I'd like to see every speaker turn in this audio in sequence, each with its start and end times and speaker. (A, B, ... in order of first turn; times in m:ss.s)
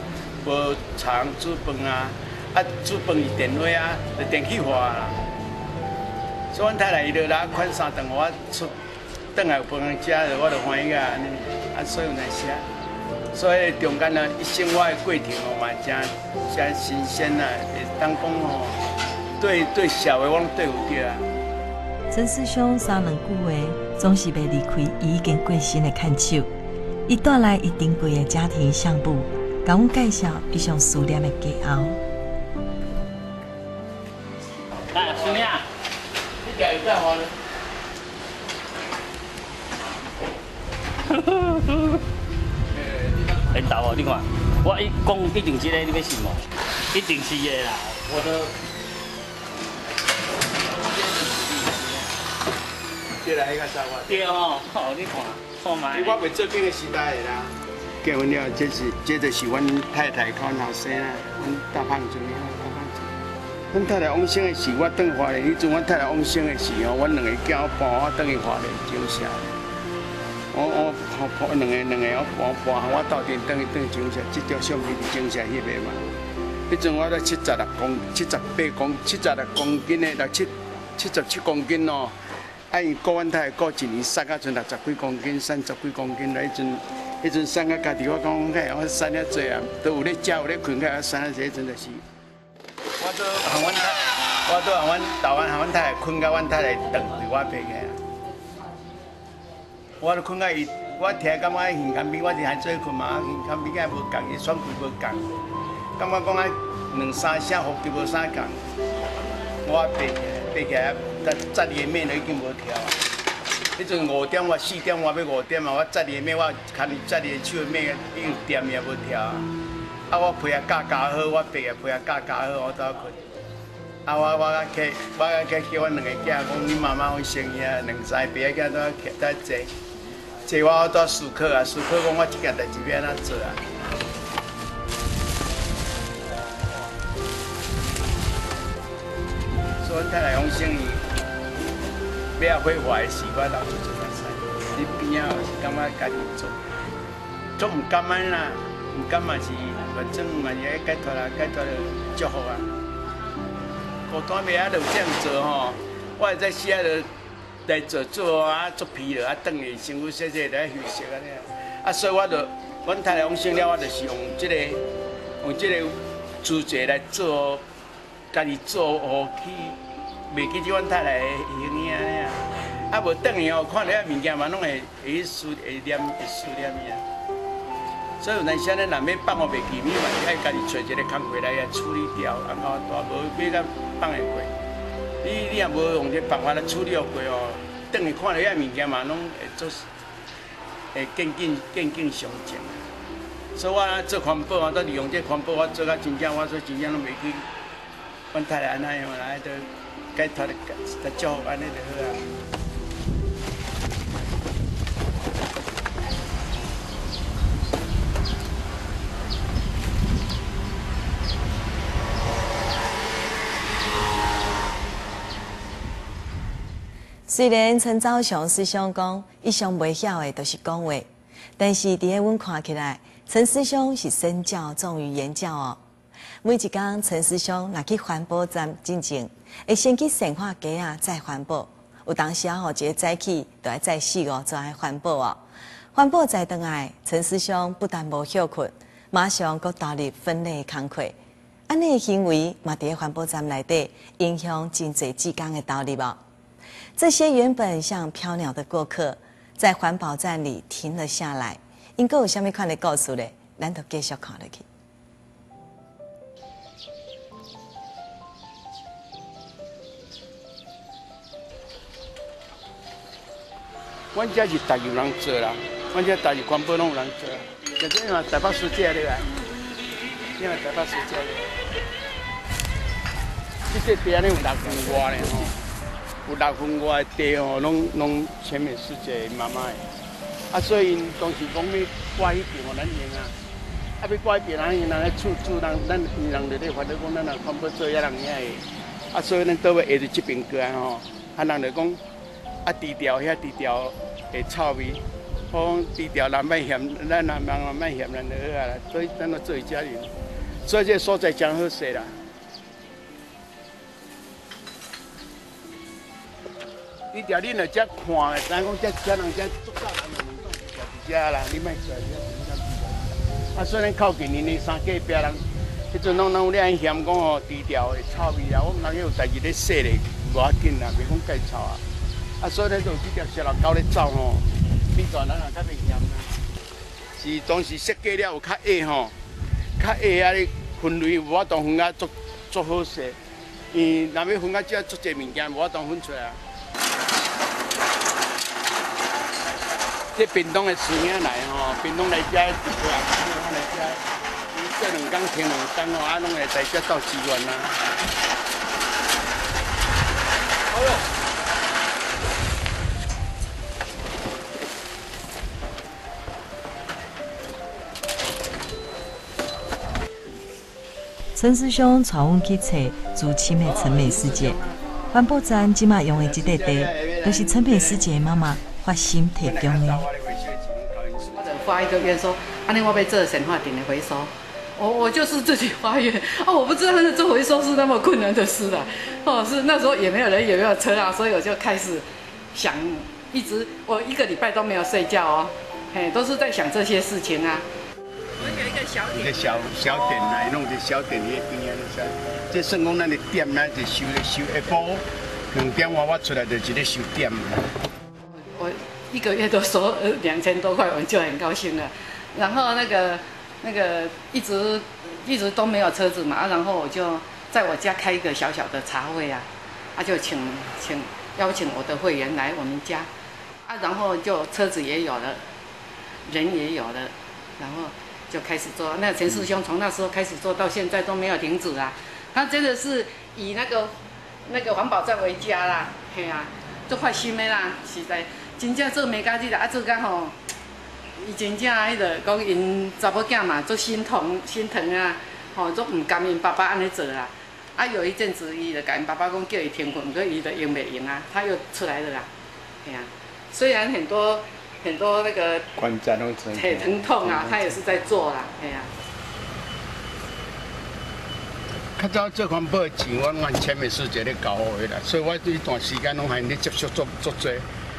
0:00.4-0:05.2 A
0:06.5-0:08.8 A
0:09.3-0:12.7 A
0:13.3-0:18.8 A
0:19.4-0:21.3 A
0:22.1-0:26.5 B
0:27.0-0:32.0 B
0:34.9-0:35.6 C
0:35.0-0:35.4 A
0:36.4-0:37.3 A
0:41.1-0:42.0 C
0:42.7-0:43.6 A
0:43.5-0:48.2 C
0:51.0-0:52.0 A
0:53.2-0:54.3 A
0:54.1-0:56.2 C
0:55.9-1:03.1 A
1:03.7-1:09.5 A
1:10.5-1:16.0 A
1:16.7-1:22.1 A
1:22.7-1:32.0 A
1:33.0-1:38.0 A
1:40.0-1:45.3 A
1:46.0-1:48.6 A
1:49.6-1:53.0 A
1:53.8-1:59.5 A
2:00.1-2:03.2 A
2:04.0-2:09.7 A
2:10.4-2:13.6 A
2:19.8-2:21.0 A
2:22.4-2:26.6 A
2:27.6-2:32.7 A
2:34.1-2:37.1 A
2:37.6-2:44.8 A
2:45.4-2:47.6 A
2:48.3-2:49.8 A
2:50.3-2:57.0 A
2:58.2-3:04.5 A
3:05.2-3:09.8 A
3:10.9-3:12.8 A
3:13.5-3:17.4 A
3:18.3-3:22.2 A
3:37.3-3:45.8 B
3:46.4-3:55.4 B
3:55.9-4:01.1 B
4:01.7-4:06.2 B
4:07.0-4:14.6 B
4:24.1-4:29.3 A
4:30.4-4:31.5 A
4:33.7-4:35.6 A
4:36.2-4:39.8 A
4:40.5-4:43.3 A
4:44.0-4:52.0 A
4:52.6-5:02.2 A
5:07.1-5:21.8 A
5:22.4-5:26.3 A
5:27.2-5:29.1 A
5:29.8-5:33.2 A
5:33.7-5:36.4 A
5:40.1-5:44.0 A
5:44.5-5:47.8 A
5:50.7-5:51.0 A
6:01.3-6:04.6 B
6:03.6-6:04.9 A
6:05.1-6:10.0 B
6:06.1-6:08.1 A
6:09.4-6:11.7 A
6:11.3-6:27.6 D
6:28.4-6:30.4 D
6:29.2-6:37.6 A
6:38.5-6:53.1 D
6:53.6-6:55.4 D
6:56.2-7:03.9 D
7:04.4-7:10.3 D
7:11.2-7:22.3 D
7:22.8-7:25.7 D
7:25.8-7:27.8 A
7:26.5-7:28.9 D
7:32.0-7:37.6 A